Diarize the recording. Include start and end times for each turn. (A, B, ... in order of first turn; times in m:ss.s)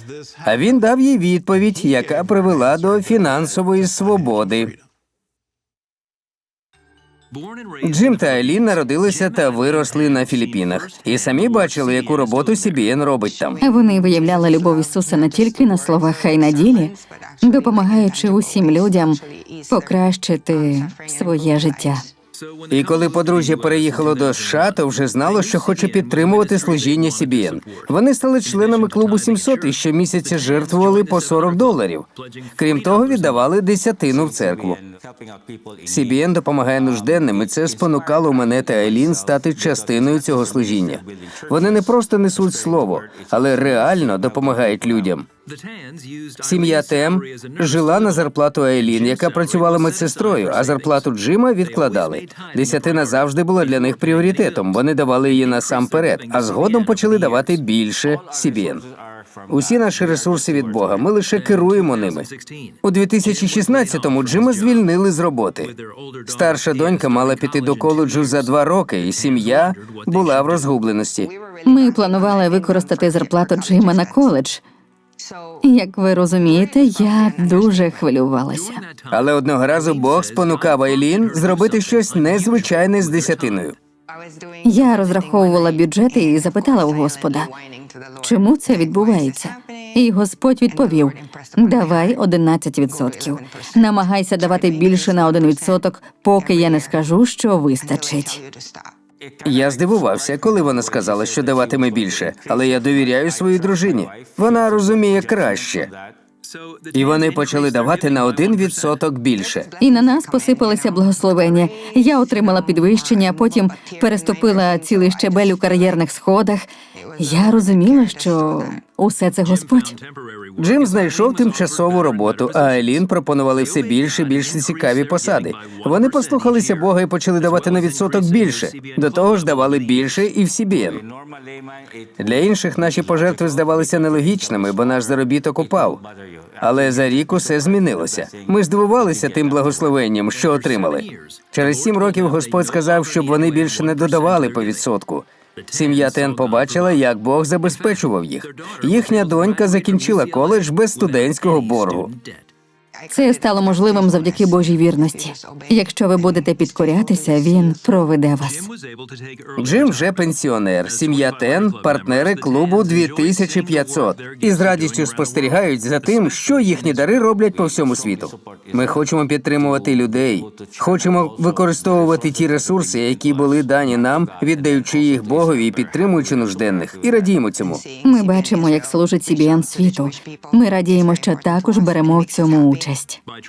0:00.4-0:04.7 A
0:07.8-0:13.6 A
0:13.6-0:22.1 B
0:22.7-0:34.8 A
0:35.8-0:45.3 A
0:46.4-0:58.8 A
0:59.5-1:02.3 A
1:02.8-1:11.3 A
1:11.6-1:14.6 B
1:15.6-1:18.8 B
1:19.1-1:23.8 A
1:24.6-1:27.5 B
1:28.2-1:38.4 B
1:39.4-1:45.9 A
1:46.9-1:49.7 A
1:49.8-2:00.0 B
2:00.6-2:11.0 A
2:12.2-2:16.0 A
2:16.6-2:32.2 A
2:33.1-2:38.7 B
2:39.6-2:57.8 A
2:58.0-3:03.2 B